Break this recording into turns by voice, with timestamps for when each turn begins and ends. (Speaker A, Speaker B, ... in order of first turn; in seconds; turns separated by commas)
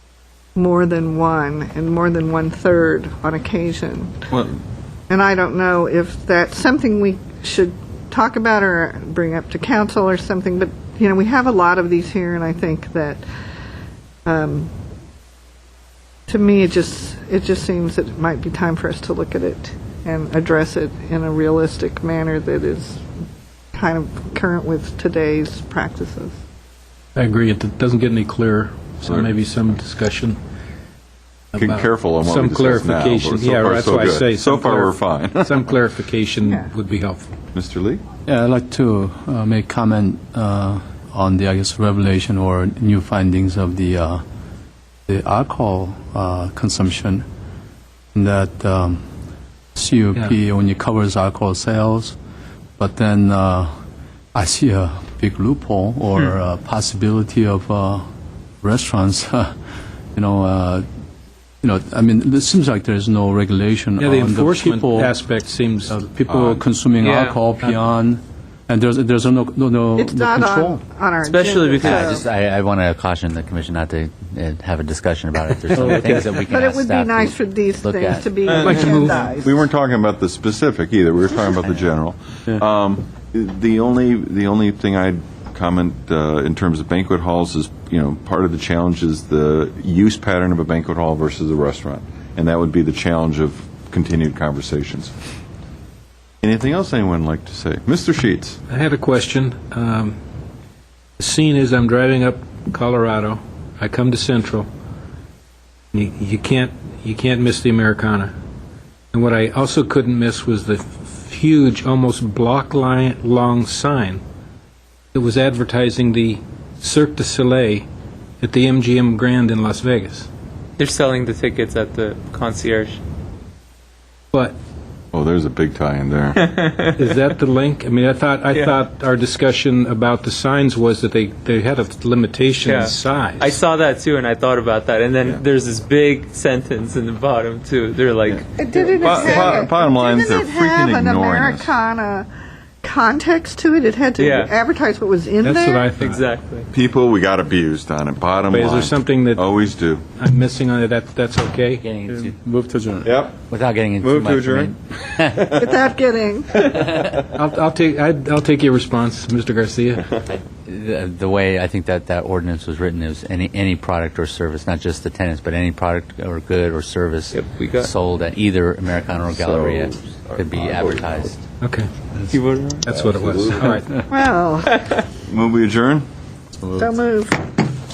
Speaker A: 0.5-4.2, Speaker B: 4.3-4.5, Speaker A: 5.1-13.2, Speaker A: 14.2-14.7, Speaker A: 16.3-23.0, Speaker A: 23.7-26.4, Speaker C: 27.1-30.4, Speaker B: 29.0-29.3, Speaker C: 31.5-37.3, Speaker B: 31.5-35.6, Speaker A: 36.4-36.7, Speaker B: 37.5-38.0, Speaker D: 38.3-44.2, Speaker D: 45.1-47.2, Speaker D: 48.1-49.0, Speaker D: 49.7-52.1, Speaker D: 52.8-53.7, Speaker D: 54.3-58.0, Speaker D: 58.6-59.5, Speaker D: 60.1-60.8, Speaker D: 61.6-65.2, Speaker C: 64.0-66.0, Speaker D: 65.9-70.8, Speaker B: 66.3-66.6, Speaker E: 67.0-67.4, Speaker A: 70.0-72.2, Speaker E: 71.2-72.1, Speaker F: 71.8-78.5, Speaker D: 75.8-76.3, Speaker A: 76.5-79.6, Speaker E: 78.5-78.8, Speaker C: 78.6-79.2, Speaker B: 78.6-95.1, Speaker B: 96.4-98.6, Speaker C: 98.7-100.2, Speaker C: 101.2-104.7, Speaker C: 105.9-108.3, Speaker C: 109.1-114.2, Speaker C: 115.1-117.8, Speaker C: 118.4-120.3, Speaker E: 120.8-123.0, Speaker B: 125.1-126.4, Speaker E: 126.3-127.2, Speaker C: 127.0-133.5, Speaker E: 128.5-128.8, Speaker E: 132.6-139.6, Speaker B: 138.3-141.7, Speaker A: 138.6-142.3, Speaker A: 142.8-145.9, Speaker E: 144.2-144.5, Speaker C: 145.4-146.2, Speaker E: 146.0-146.7, Speaker B: 146.7-150.0, Speaker C: 148.5-149.5, Speaker C: 150.2-151.8, Speaker F: 151.8-152.3, Speaker D: 152.1-153.1, Speaker B: 153.0-153.4, Speaker F: 153.5-155.6, Speaker B: 154.0-155.7, Speaker A: 155.5-156.7, Speaker F: 156.7-157.2, Speaker C: 157.3-160.1, Speaker F: 160.3-171.4, Speaker E: 167.3-167.9, Speaker B: 169.3-171.3, Speaker C: 171.6-171.9, Speaker E: 172.3-172.9, Speaker C: 172.9-174.0, Speaker B: 172.9-173.8, Speaker A: 174.1-174.8, Speaker E: 174.7-175.0, Speaker B: 175.3-176.0, Speaker A: 176.7-177.4